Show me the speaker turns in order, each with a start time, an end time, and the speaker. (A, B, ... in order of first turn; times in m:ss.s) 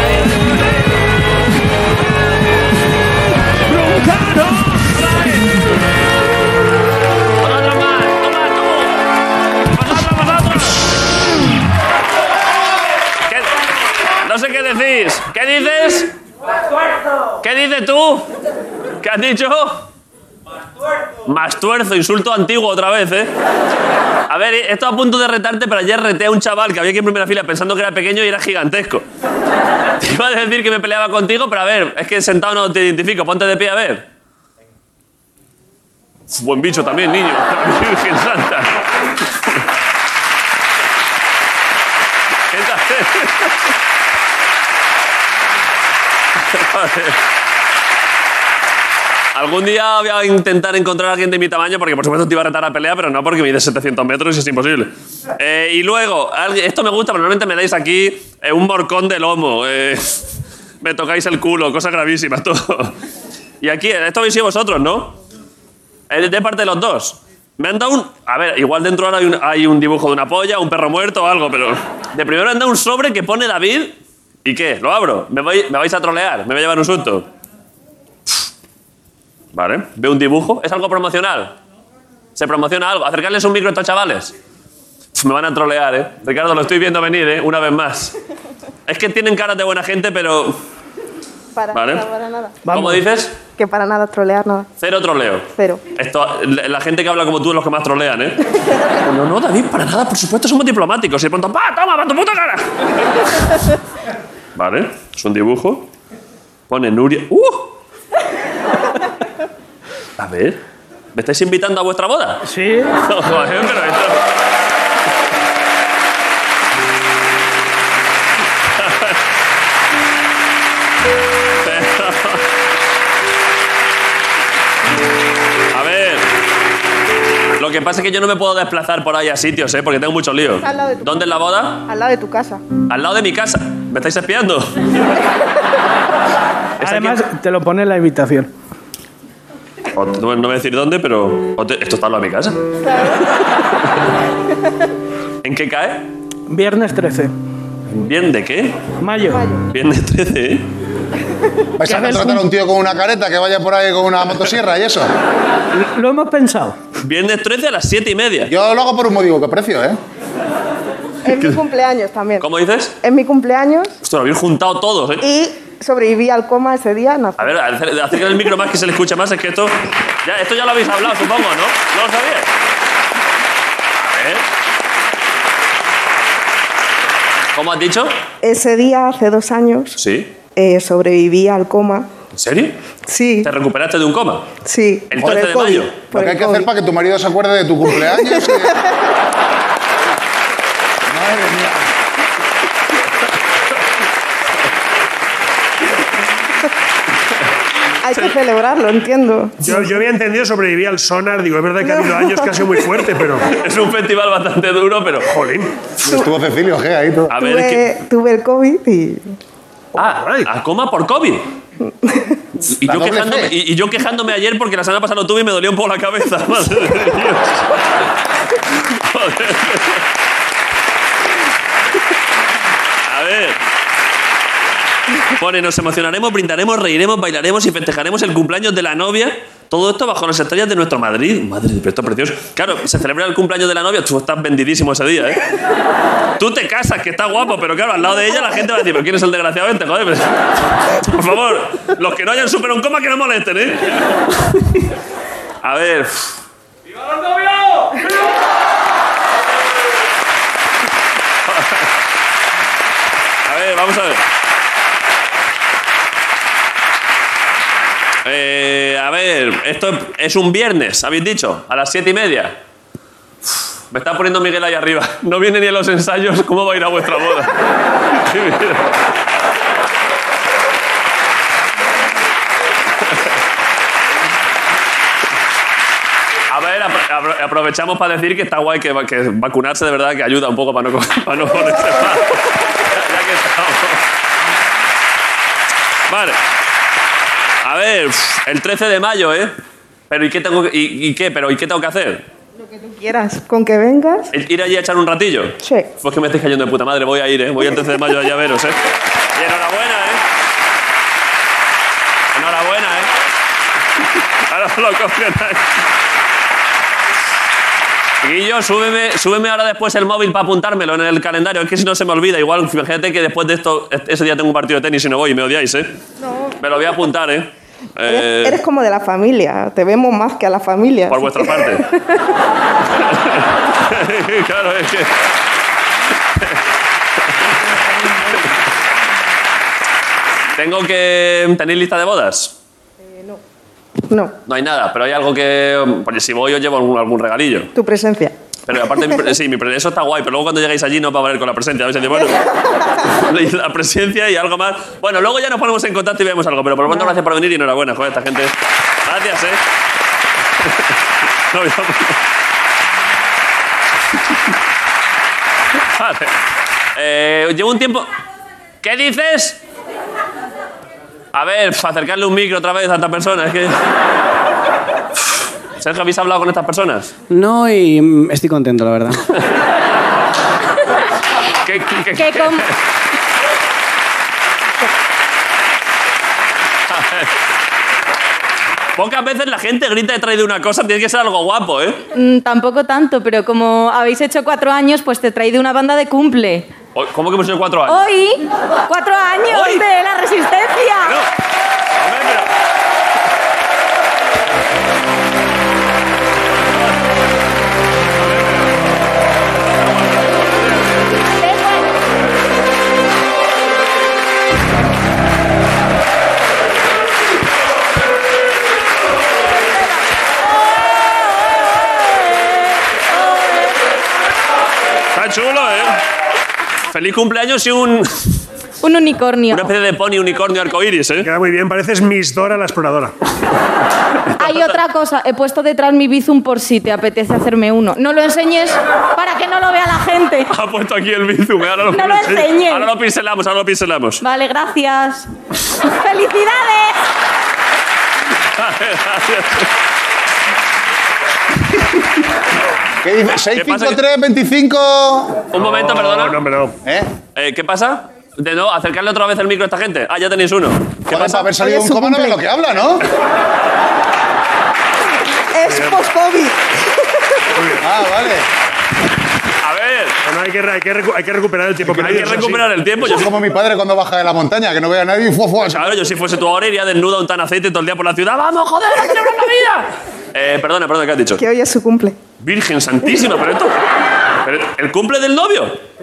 0:03.7-0:04.9 A
0:05.0-0:05.5 B
0:07.4-0:09.0 B
0:09.7-0:10.8 B
0:14.2-0:16.1 B
0:17.4-0:18.3 B
0:19.0-0:19.8 B
0:21.3-0:23.3 B
0:24.3-0:29.0 B
0:30.0-0:34.0 B
0:36.3-0:38.9 B
0:42.5-0:43.5 B
0:46.5-0:47.2 B
0:49.3-1:00.3 B
1:00.8-1:03.0 B
1:03.6-1:05.2 B
1:06.1-1:17.2 B
1:19.5-1:21.6 B
1:22.4-1:24.3 B
1:25.1-1:28.1 B
1:28.9-1:30.6 B
1:31.5-1:32.6 C
1:31.7-1:32.0 B
1:32.6-1:33.0 A
1:32.7-1:33.3 B
1:33.6-1:34.7 C
1:34.8-1:38.4 B
1:35.6-1:35.8 C
1:39.0-1:42.7 B
1:44.6-1:45.9 B
1:46.7-1:47.7 B
1:50.2-1:50.6 B
1:51.1-1:52.4 B
1:52.4-1:52.9 A
1:53.0-1:54.2 B
1:58.8-1:59.2 B
2:01.6-2:02.4 B
2:05.7-2:06.3 B
2:07.6-2:11.8 B
2:10.6-2:11.1 C
2:11.9-2:12.6 C
2:12.9-2:14.8 B
2:16.8-2:17.2 B
2:16.8-2:18.5 A
2:19.9-2:22.6 B
2:22.8-2:23.2 C
2:25.4-2:26.1 B
2:26.5-2:27.3 A
2:28.0-2:28.8 B
2:29.0-2:29.4 A
2:29.7-2:30.6 B
2:31.8-2:35.1 D
2:31.8-2:32.4 A
2:35.7-2:36.8 A
2:37.0-2:38.5 B
2:38.5-2:40.0 D
2:41.2-2:42.5 C
2:42.4-2:42.9 B
2:43.0-2:44.0 C
2:44.0-2:45.2 B
2:45.2-2:47.6 C
2:47.4-2:52.5 B
2:54.1-2:54.4 B
2:57.5-2:58.2 B
2:58.4-3:00.0 C
3:00.0-3:00.3 B
3:00.6-3:02.1 C
3:02.3-3:02.8 B
3:03.1-3:03.5 C
3:03.4-3:04.5 B
3:04.6-3:06.7 C
3:05.1-3:05.9 B
3:05.2-3:08.8 D
3:08.1-3:08.7 C
3:11.1-3:11.9 D
3:18.0-3:19.9 C
3:19.6-3:23.5 E
3:21.8-3:22.4 C
3:23.5-3:25.3 B
3:25.3-3:25.7 E
3:26.0-3:27.3 D
3:27.3-3:27.9 B
3:27.3-3:29.3 C
3:30.0-3:31.4 B
3:30.0-3:30.5 E
3:32.6-3:37.6 B
3:32.8-3:33.5 D
3:38.9-3:40.0 B
3:43.0-3:43.6 B
3:45.4-3:55.4 B
3:56.4-4:00.4 B
4:00.9-4:04.8 B
4:05.6-4:06.4 B
4:11.4-4:11.9 B
4:13.4-4:14.2 B
4:18.2-4:22.5 B
4:23.9-4:27.6 B
4:28.1-4:28.8 B
4:36.5-4:44.0 B
4:46.1-4:46.4 B
4:47.6-4:49.5 B
4:50.1-4:52.2 B
4:52.6-4:54.3 C
4:54.3-4:58.8 B
4:59.3-5:00.2 B
5:02.3-5:03.1 B
5:04.5-5:05.6 B
5:08.2-5:15.9 B
5:16.6-5:18.6 B
5:18.0-5:22.2 C
5:21.1-5:21.8 B
5:23.0-5:25.1 B
5:27.8-5:28.4 C
5:30.6-5:32.5 B
5:33.1-5:33.4 C
5:34.1-5:34.3 C
5:34.5-5:37.7 B
5:37.7-5:38.3 C
5:38.7-5:42.4 B
5:43.1-5:48.5 B
5:49.0-5:49.6 B
5:51.5-5:52.2 B
5:55.9-5:56.3 B
5:57.0-5:58.1 B
5:58.8-5:59.6 B
6:01.3-6:03.8 B
6:05.8-6:07.1 B
6:07.3-6:09.2 F
6:11.6-6:12.7 B
6:12.1-6:12.7 G
6:16.9-6:17.3 B
6:19.0-6:22.0 B
6:22.1-6:26.7 G
6:26.9-6:28.1 B
6:27.9-6:31.2 G
6:29.5-6:29.8 B
6:31.0-6:31.3 B
6:32.0-6:32.5 B
6:38.2-6:38.7 B
6:40.0-6:40.9 B
6:55.1-6:56.0 B
6:56.9-6:58.3 B
6:58.8-6:59.7 G
6:59.5-7:01.3 B
7:01.2-7:03.1 E
7:04.4-7:10.5 G
7:04.4-7:04.8 B
7:10.5-7:14.2 B
7:11.9-7:12.9 G
7:14.2-7:15.3 G
7:15.8-7:17.0 G
7:18.5-7:19.7 B
7:23.0-7:25.4 D
7:23.5-7:24.0 B
7:25.5-7:26.4 B
7:25.6-7:26.7 E
7:26.8-7:27.1 D
7:27.4-7:31.5 B
7:31.1-7:33.0 D
7:31.5-7:32.4 C
7:35.5-7:36.9 C
7:35.6-7:36.0 E
7:37.6-7:37.8 E
7:37.8-7:38.5 D
7:39.6-7:40.2 B
7:40.2-7:42.7 E
7:41.9-7:43.3 B
7:43.0-7:45.9 D
7:45.6-7:51.4 B
7:51.4-7:52.2 C
7:52.4-7:53.8 B
7:54.4-7:55.8 B